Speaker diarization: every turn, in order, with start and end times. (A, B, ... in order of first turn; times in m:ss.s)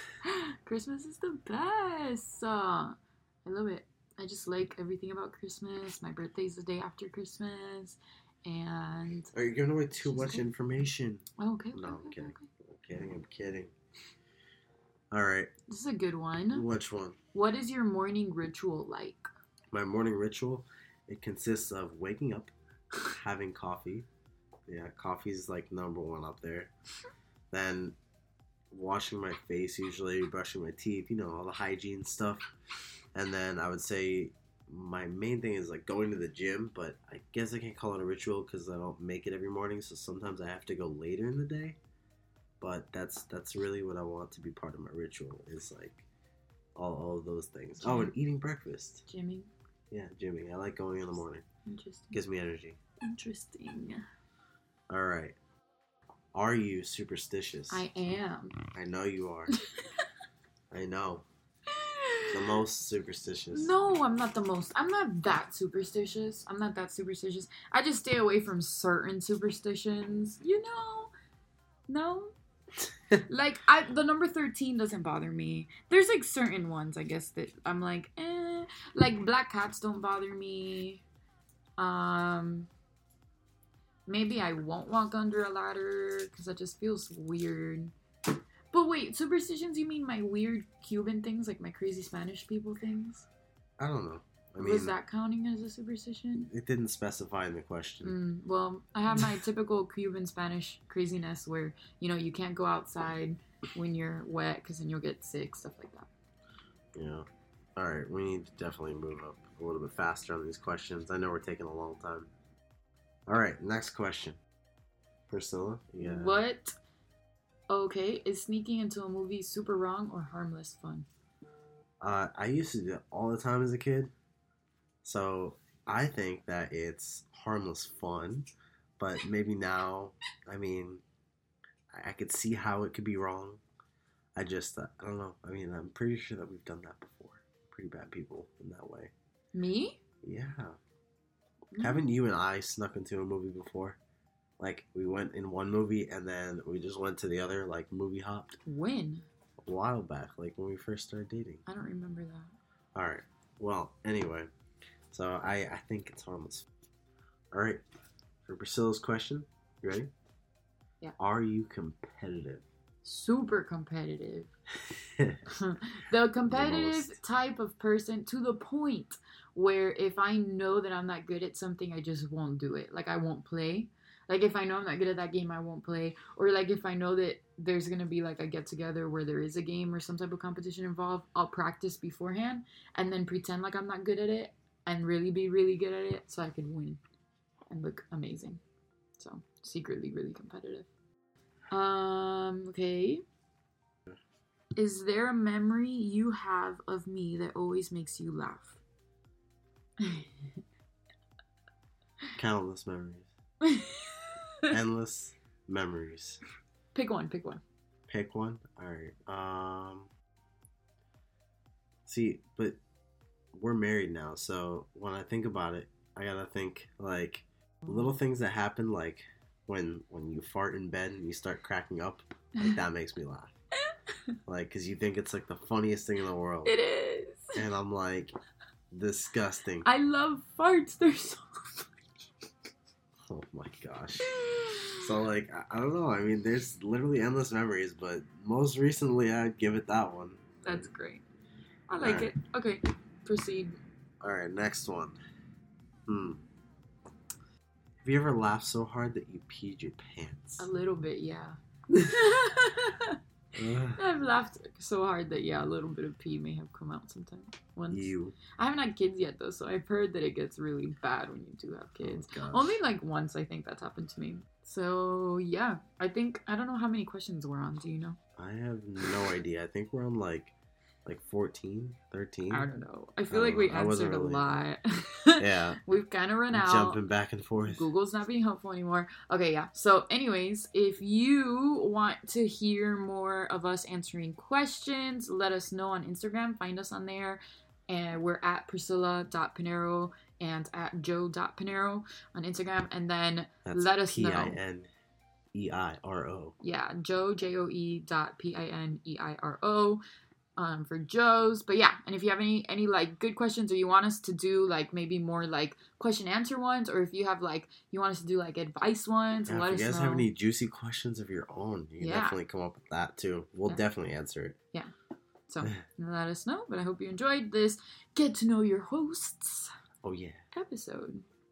0:00.2-0:09.3 A
0:09.3-0:13.7 B
0:10.0-0:10.5 A
0:11.4-0:12.5 A
0:15.1-0:15.5 B
0:15.7-0:16.7 A
0:16.5-0:17.2 B
0:17.3-0:19.3 A
0:19.7-0:24.1 B
0:24.7-0:26.7 B
0:27.5-0:28.0 B
0:28.7-0:32.5 B
0:33.2-0:41.8 B
0:42.6-0:46.0 B
0:46.8-0:49.0 B
0:47.8-0:48.2 A
0:49.1-0:49.5 A
0:49.9-0:51.4 B
0:51.7-0:52.2 A
0:52.1-0:52.8 B
0:53.0-0:54.0 A
0:54.9-0:55.4 B
0:56.3-0:57.8 B
0:57.7-0:58.6 A
0:58.8-0:59.5 B
1:00.7-1:01.2 B
1:01.8-1:02.2 A
1:02.3-1:03.7 B
1:03.5-1:11.1 A
1:11.9-1:12.3 A
1:13.3-1:21.0 A
1:21.8-1:22.7 A
1:24.1-1:27.9 A
1:28.7-1:33.3 A
1:33.8-1:35.0 B
1:34.6-1:36.5 A
1:36.5-1:38.2 B
1:38.0-1:46.1 A
1:47.0-1:52.3 B
1:53.3-1:54.4 B
1:55.3-1:56.4 B
1:56.0-1:56.8 A
1:57.7-2:01.1 A
2:02.0-2:04.1 B
2:05.0-2:08.5 B
2:09.0-2:11.0 B
2:11.9-2:13.6 B
2:14.4-2:19.1 B
2:19.5-2:20.0 A
2:20.2-2:20.8 B
2:21.7-2:22.0 A
2:21.8-2:24.0 B
2:24.6-2:28.6 B
2:28.7-2:29.3 A
2:29.7-2:31.6 B
2:31.7-2:32.5 A
2:33.0-2:34.5 B
2:35.1-2:36.7 B
2:37.5-2:37.8 B
2:38.5-2:40.1 B
2:41.2-2:42.6 B
2:43.0-2:44.5 A
2:45.2-2:45.4 B
2:45.5-3:07.0 A
2:46.5-2:47.2 B
3:07.7-3:08.6 A
3:09.2-3:10.9 A
3:11.7-3:13.2 A
3:14.8-3:18.8 A
3:20.0-3:20.3 A
3:22.4-3:23.3 B
3:23.6-3:24.3 A
3:24.7-3:26.4 B
3:26.9-3:27.6 A
3:28.1-3:30.1 B
3:32.1-3:32.8 B
3:33.5-3:43.5 B
3:44.5-3:46.7 B
3:46.6-3:47.5 A
3:47.6-3:48.4 B
3:48.9-3:49.9 B
3:49.8-3:51.9 A
3:53.3-3:54.3 B
3:54.2-3:55.0 A
3:55.0-4:00.9 B
4:00.6-4:01.2 A
4:01.9-4:03.8 A
4:02.0-4:02.3 B
4:04.2-4:05.2 B
4:06.1-4:06.4 B
4:08.0-4:10.7 B
4:10.6-4:13.2 A
4:13.6-4:14.0 B
4:13.9-4:28.2 A
4:17.9-4:18.4 B
4:22.0-4:22.8 B
4:28.4-4:32.7 B
4:32.5-4:37.0 A
4:33.3-4:34.6 B
4:35.4-4:35.8 B
4:36.5-4:37.9 B
4:37.6-4:54.6 A
4:53.7-4:54.9 B
4:55.5-4:56.6 B
4:56.6-5:00.0 A
5:00.6-5:10.3 A
5:09.5-5:14.6 B
5:12.0-5:12.4 A
5:15.5-5:19.7 A
5:20.0-5:20.4 B
5:20.5-5:21.3 A